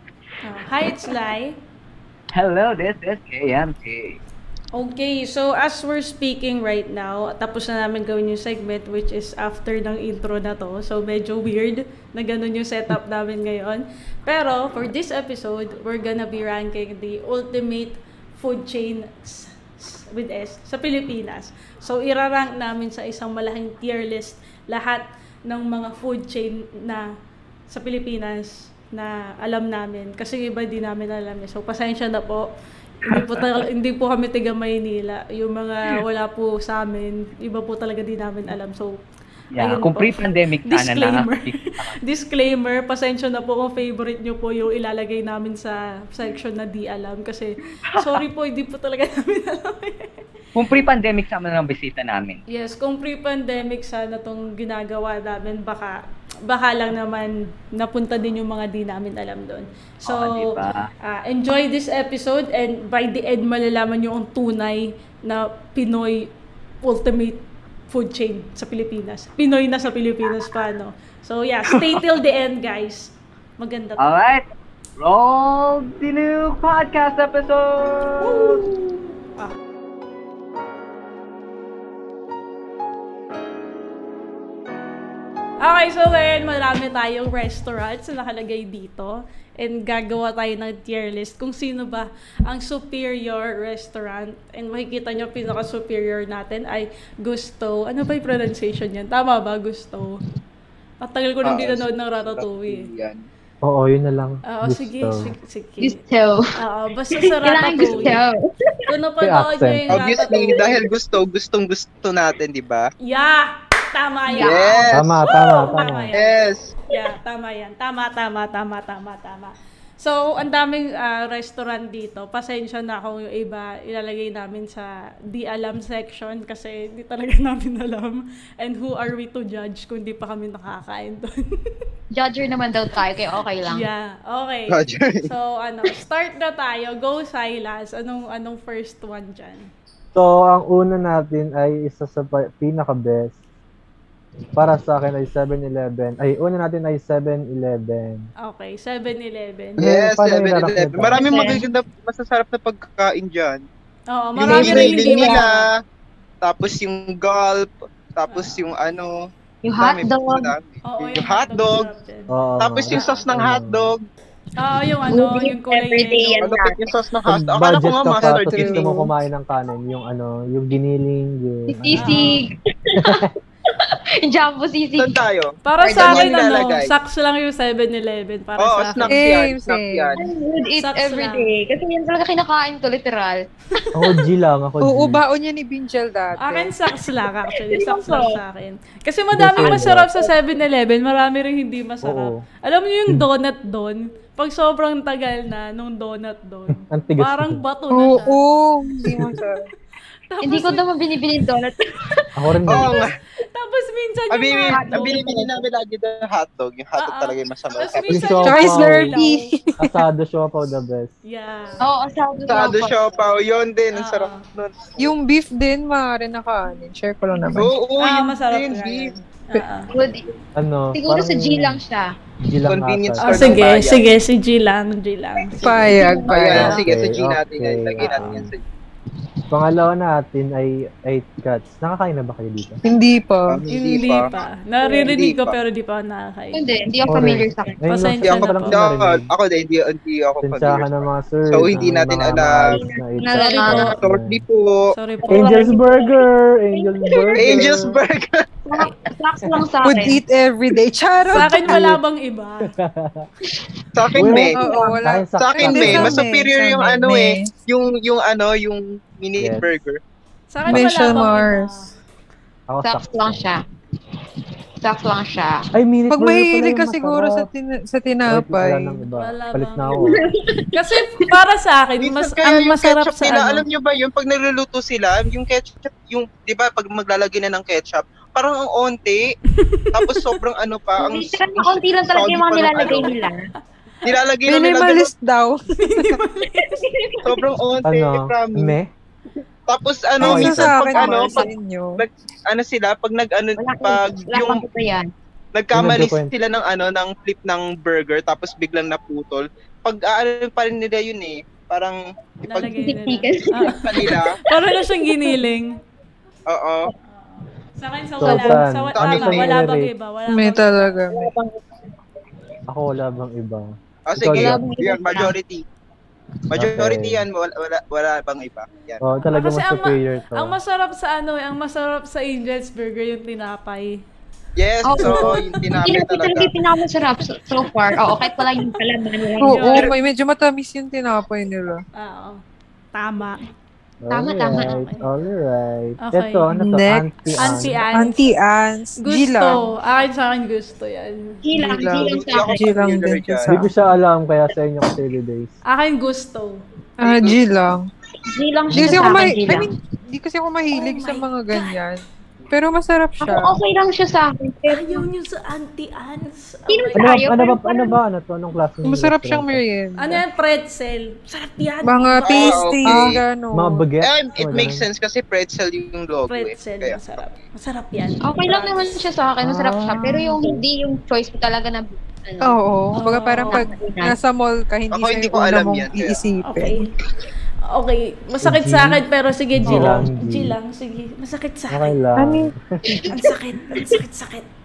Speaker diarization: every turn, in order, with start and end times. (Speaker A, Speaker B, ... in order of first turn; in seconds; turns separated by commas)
Speaker A: 0.4-1.6, Speaker B: 2.3-4.2, Speaker A: 4.8-27.0, Speaker A: 27.7-32.5, Speaker B: 33.0-33.6, Speaker A: 33.0-39.0, Speaker B: 39.5-41.9, Speaker A: 39.6-50.2, Speaker B: 47.9-48.2, Speaker B: 50.6-52.4, Speaker A: 52.5-66.3, Speaker B: 60.0-60.9, Speaker A: 66.8-74.1, Speaker B: 71.7-72.1, Speaker B: 74.0-74.5, Speaker B: 75.0-78.7, Speaker A: 78.2-79.6, Speaker A: 85.6-100.2, Speaker A: 101.0-102.9, Speaker C: 101.5-103.2, Speaker D: 103.6-105.3, Speaker A: 104.5-106.0, Speaker E: 105.8-106.4, Speaker A: 106.6-108.2, Speaker E: 107.2-108.4, Speaker A: 108.9-110.7, Speaker D: 109.2-110.0, Speaker C: 109.9-112.9, Speaker E: 110.2-110.9, Speaker A: 113.1-116.4, Speaker E: 114.3-114.8, Speaker C: 114.4-115.2, Speaker D: 114.9-116.1, Speaker C: 116.2-116.7, Speaker A: 116.9-131.4, Speaker E: 132.1-133.8, Speaker A: 133.7-139.7, Speaker C: 134.7-135.3, Speaker D: 140.1-143.4, Speaker D: 144.6-148.3, Speaker A: 148.4-149.8, Speaker C: 149.8-153.6, Speaker D: 149.8-151.2, Speaker E: 151.2-151.6, Speaker A: 154.1-155.6, Speaker C: 154.4-155.7, Speaker E: 154.4-155.5, Speaker C: 156.4-161.9, Speaker A: 158.3-158.7, Speaker E: 159.6-160.5, Speaker A: 160.8-162.3, Speaker D: 162.3-163.9, Speaker C: 162.6-164.0, Speaker A: 162.9-163.2, Speaker A: 164.6-166.4, Speaker E: 165.1-166.8, Speaker C: 166.4-168.9, Speaker D: 167.3-172.2, Speaker F: 168.2-169.1, Speaker E: 171.7-175.1, Speaker A: 171.9-172.4, Speaker D: 173.0-173.3, Speaker C: 175.0-176.9, Speaker A: 175.7-179.2, Speaker E: 175.8-176.7, Speaker C: 178.6-180.2, Speaker F: 179.1-180.2, Speaker E: 180.2-183.8, Speaker A: 180.8-181.5, Speaker D: 183.9-185.2, Speaker F: 184.8-186.7, Speaker A: 186.4-198.4, Speaker E: 187.7-188.4, Speaker D: 189.3-190.1, Speaker D: 192.0-192.4, Speaker D: 196.7-197.6, Speaker F: 197.9-199.7, Speaker A: 200.3-200.8, Speaker E: 200.4-202.3, Speaker D: 202.4-202.9, Speaker C: 202.7-203.2, Speaker A: 203.5-205.2, Speaker C: 204.3-208.4, Speaker E: 204.7-205.6, Speaker A: 207.0-209.5, Speaker D: 208.1-209.1, Speaker F: 208.4-210.0, Speaker D: 209.8-211.1, Speaker A: 211.3-211.8, Speaker E: 211.8-213.3, Speaker C: 212.5-215.1, Speaker A: 213.9-214.4, Speaker F: 215.0-217.7, Speaker C: 217.6-219.1, Speaker A: 218.0-219.9, Speaker E: 219.9-220.2, Speaker D: 220.6-221.8, Speaker E: 220.9-222.1, Speaker D: 222.4-223.6, Speaker C: 222.7-224.1, Speaker A: 223.2-226.0, Speaker F: 225.5-226.7, Speaker E: 225.6-226.8, Speaker C: 226.3-228.6, Speaker D: 226.6-228.5, Speaker D: 229.5-232.8, Speaker F: 232.8-233.6, Speaker C: 233.5-234.3, Speaker A: 233.7-236.6, Speaker E: 234.8-235.1, Speaker C: 235.0-235.6, Speaker E: 236.5-237.8, Speaker D: 237.1-239.3, Speaker A: 237.9-238.8, Speaker C: 238.3-242.8, Speaker D: 240.4-244.4, Speaker E: 242.7-244.0, Speaker A: 243.3-243.9, Speaker C: 243.8-244.9, Speaker A: 244.9-245.7, Speaker E: 245.2-247.7, Speaker D: 245.3-248.0, Speaker C: 247.4-248.4, Speaker E: 248.7-250.2, Speaker F: 249.8-251.8, Speaker A: 251.3-252.7, Speaker D: 251.5-252.0, Speaker D: 252.7-253.3, Speaker C: 254.0-254.6, Speaker D: 254.2-256.3, Speaker F: 254.2-257.5, Speaker E: 254.6-255.0, Speaker C: 255.4-260.0, Speaker D: 259.4-259.8, Speaker A: 260.5-261.9, Speaker F: 260.7-261.8, Speaker D: 260.7-261.1, Speaker D: 262.7-263.5, Speaker E: 262.8-263.6, Speaker E: 264.8-265.7, Speaker D: 265.7-267.5, Speaker F: 266.1-269.0, Speaker D: 268.3-270.3, Speaker A: 269.1-270.2, Speaker E: 270.0-271.0, Speaker A: 270.7-273.6, Speaker C: 272.0-279.4, Speaker A: 279.5-280.3, Speaker C: 279.9-283.1, Speaker E: 281.0-283.5, Speaker C: 284.0-285.1, Speaker F: 284.5-286.2, Speaker A: 285.8-286.8, Speaker E: 286.6-287.4, Speaker C: 287.2-288.8, Speaker D: 287.8-288.9, Speaker C: 289.7-291.4, Speaker F: 290.2-292.0, Speaker D: 290.2-290.8, Speaker E: 290.7-291.5, Speaker C: 292.0-294.6, Speaker E: 293.6-295.1, Speaker C: 295.5-302.0, Speaker D: 295.7-296.3, Speaker A: 302.5-305.8, Speaker E: 302.6-305.4, Speaker C: 303.8-304.4, Speaker C: 306.5-306.9, Speaker A: 307.1-311.0, Speaker D: 308.2-309.9, Speaker C: 309.0-309.5, Speaker F: 310.3-311.3, Speaker E: 311.1-311.7, Speaker D: 312.7-314.6, Speaker C: 314.1-315.6, Speaker E: 314.3-315.3, Speaker C: 316.5-319.0, Speaker D: 316.6-317.2, Speaker D: 319.0-320.6, Speaker A: 319.3-324.0, Speaker C: 324.6-326.5, Speaker E: 324.9-329.9, Speaker A: 325.0-325.4, Speaker F: 329.4-331.8, Speaker A: 329.5-329.9, Speaker A: 332.0-332.4, Speaker A: 332.9-333.4, Speaker D: 334.0-337.8, Speaker E: 334.1-334.8, Speaker A: 334.6-335.1, Speaker A: 336.0-336.5, Speaker F: 336.5-339.6, Speaker A: 337.4-338.2, Speaker A: 339.0-341.4, Speaker E: 341.4-342.9, Speaker F: 341.5-343.7, Speaker C: 341.9-343.5, Speaker D: 343.5-345.6, Speaker A: 345.7-346.6, Speaker F: 347.0-347.9, Speaker C: 347.0-347.4, Speaker E: 348.3-349.7, Speaker F: 348.7-353.6, Speaker D: 348.7-349.3, Speaker E: 350.7-351.7, Speaker E: 353.2-355.1, Speaker A: 354.7-357.2, Speaker E: 356.7-358.0, Speaker D: 356.9-359.6, Speaker F: 358.8-360.2, Speaker A: 360.0-362.7, Speaker F: 361.8-363.9, Speaker C: 362.2-363.2, Speaker D: 362.9-364.9, Speaker C: 364.0-367.2, Speaker A: 366.3-369.1, Speaker E: 368.2-372.6, Speaker D: 369.4-370.2, Speaker F: 370.0-370.4, Speaker F: 372.4-376.8, Speaker A: 372.9-373.6, Speaker E: 373.5-374.1, Speaker C: 374.9-376.2, Speaker A: 376.4-376.9, Speaker A: 377.7-381.9, Speaker D: 378.4-379.0, Speaker D: 379.6-380.6, Speaker D: 381.7-383.1, Speaker F: 382.2-382.5, Speaker E: 382.9-383.3, Speaker A: 383.1-384.5